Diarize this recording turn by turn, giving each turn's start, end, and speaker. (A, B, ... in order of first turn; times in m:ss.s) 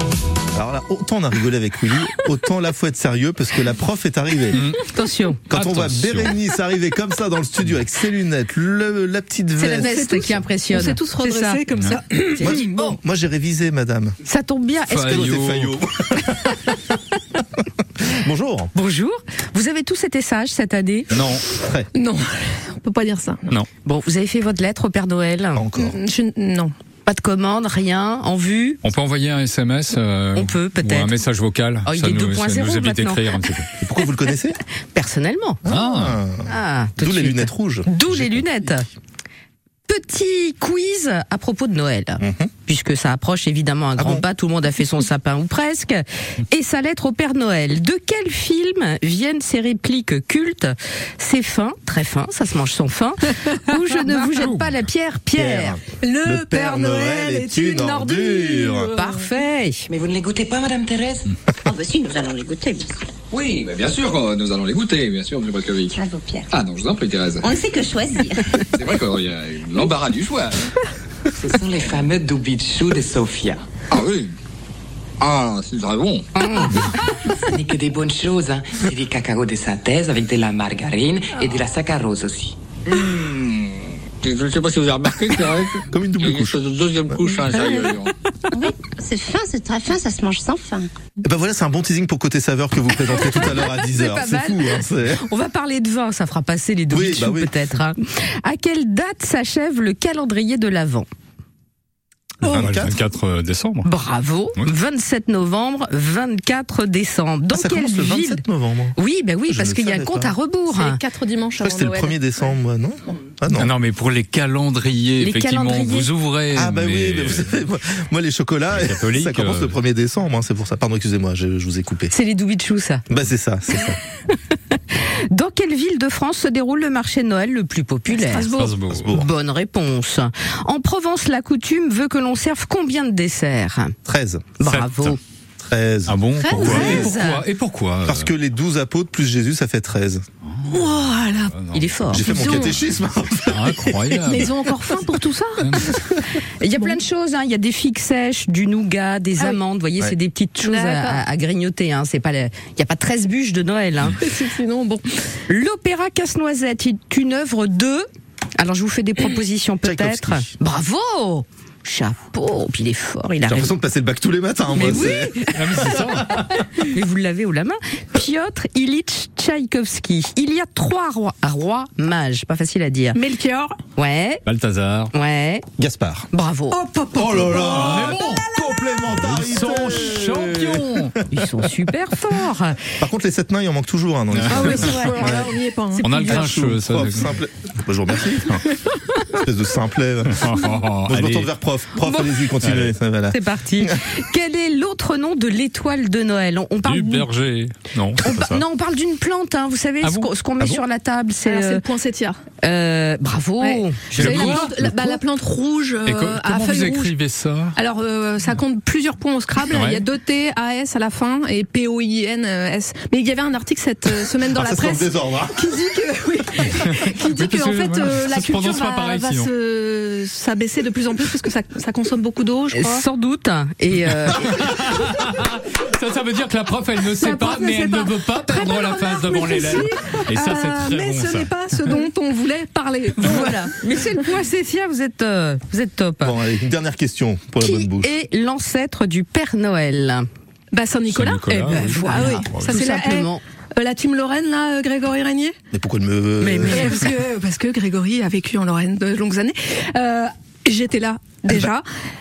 0:00.5-0:04.6 A
0:04.5-0:04.8 B
0:04.9-0:05.4 C
0:05.5-0:10.1 A
0:05.5-0:06.3 B
0:09.6-0:11.6 C
0:09.7-0:13.0 D
0:12.4-0:13.0 C
0:12.4-0:14.2 A
0:14.3-0:15.4 C
0:14.9-0:15.7 B
0:15.0-0:16.5 A
0:18.0-0:18.7 A
0:18.7-0:21.1 C
0:21.1-0:21.5 B
0:21.5-0:21.9 A
0:21.9-0:23.5 D
0:23.8-0:25.6 C
0:25.6-0:26.0 A
0:25.8-0:26.7 D
0:27.1-0:28.8 C
0:28.8-0:33.7 B
0:30.4-0:31.1 C
0:31.9-0:33.4 C
0:33.8-0:34.6 A
0:34.9-0:35.6 C
0:35.6-0:38.8 A
0:35.7-0:36.2 B
0:36.5-0:38.9 C
0:39.9-0:55.8 C
0:42.2-0:42.5 A
0:44.0-0:44.2 A
0:54.4-0:54.7 B
0:55.3-0:58.9 A
0:56.0-0:59.2 D
0:59.0-0:59.9 C
0:59.9-1:01.3 E
1:01.6-1:03.1 F
1:03.3-1:06.0 G
1:05.9-1:06.5 F
1:06.5-1:07.4 G
1:07.4-1:08.4 F
1:08.8-1:10.6 G
1:11.4-1:13.6 E
1:13.9-1:14.3 G
1:15.2-1:16.3 G
1:16.4-1:16.8 C
1:17.5-1:22.6 E
1:22.9-1:28.1 G
1:25.9-1:27.4 A
1:28.5-1:30.9 F
1:31.2-1:35.3 A
1:33.4-1:41.1 C
1:36.9-1:37.8 A
1:42.4-1:43.0 A
1:42.5-1:43.9 B
1:43.8-1:48.4 C
1:47.5-1:49.0 A
1:49.0-1:51.0 C
1:49.5-1:50.3 A
1:50.7-1:52.5 D
1:51.6-1:53.7 A
1:53.5-1:57.5 B
1:55.2-1:56.1 C
1:56.5-2:02.1 A
1:58.7-1:59.8 B
2:02.1-2:03.0 C
2:03.1-2:04.0 A
2:04.5-2:08.5 C
2:08.1-2:08.8 D
2:08.5-2:09.1 B
2:08.9-2:09.3 A
2:09.1-2:14.0 C
2:14.0-2:14.6 A
2:14.6-2:15.2 C
2:14.6-2:15.2 B
2:15.6-2:17.2 A
2:16.1-2:18.3 B
2:16.4-2:17.4 C
2:16.6-2:17.1 D
2:18.0-2:20.2 A
2:20.4-2:22.2 B
2:20.7-2:21.5 D
2:21.7-2:22.3 C
2:22.1-2:24.4 A
2:22.2-2:22.8 D
2:23.5-2:24.5 B
2:24.3-2:27.0 D
2:25.6-2:25.9 B
2:26.6-2:34.2 C
2:30.6-2:31.2 D
2:34.2-2:35.1 D
2:35.5-2:38.1 C
2:38.6-2:43.7 C
2:39.8-2:40.5 A
2:43.5-2:46.2 A
2:44.7-2:45.9 C
2:44.9-2:45.1 D
2:45.5-2:46.7 B
2:46.8-2:53.2 C
2:53.1-2:53.8 D
2:54.0-2:54.4 C
2:54.4-2:55.1 B
2:55.1-2:55.6 C
2:55.8-2:56.3 A
2:56.3-2:56.8 C
2:56.7-2:58.7 D
2:57.2-3:01.4 A
2:57.6-2:58.5 B
2:59.0-3:01.1 B
3:01.3-3:02.8 C
3:03.0-3:05.5 A
3:04.3-3:04.8 B
3:04.5-3:06.5 D
3:04.7-3:05.4 C
3:06.0-3:07.3 B
3:06.3-3:08.5 A
3:09.4-3:14.1 A
3:10.3-3:11.5 B
3:12.0-3:12.5 C
3:12.6-3:13.0 B
3:13.3-3:17.3 C
3:16.8-3:18.6 B
3:18.2-3:21.8 C
3:20.0-3:20.3 B
3:21.4-3:22.4 D
3:22.6-3:24.7 C
3:23.6-3:27.2 D
3:24.1-3:24.8 B
3:26.0-3:27.8 B
3:27.8-3:43.0 D
3:29.7-3:30.1 B
3:34.5-3:35.6 A
3:36.8-3:39.5 B
3:42.7-3:44.5 C
3:44.2-3:51.5 B
3:47.1-3:53.8 D
3:53.2-3:56.4 C
3:56.2-3:58.1 A
3:57.6-4:00.2 C
4:00.7-4:05.6 D
4:01.1-4:02.7 B
4:01.8-4:03.4 C
4:05.7-4:06.9 A
4:06.4-4:07.1 C
4:06.6-4:11.9 D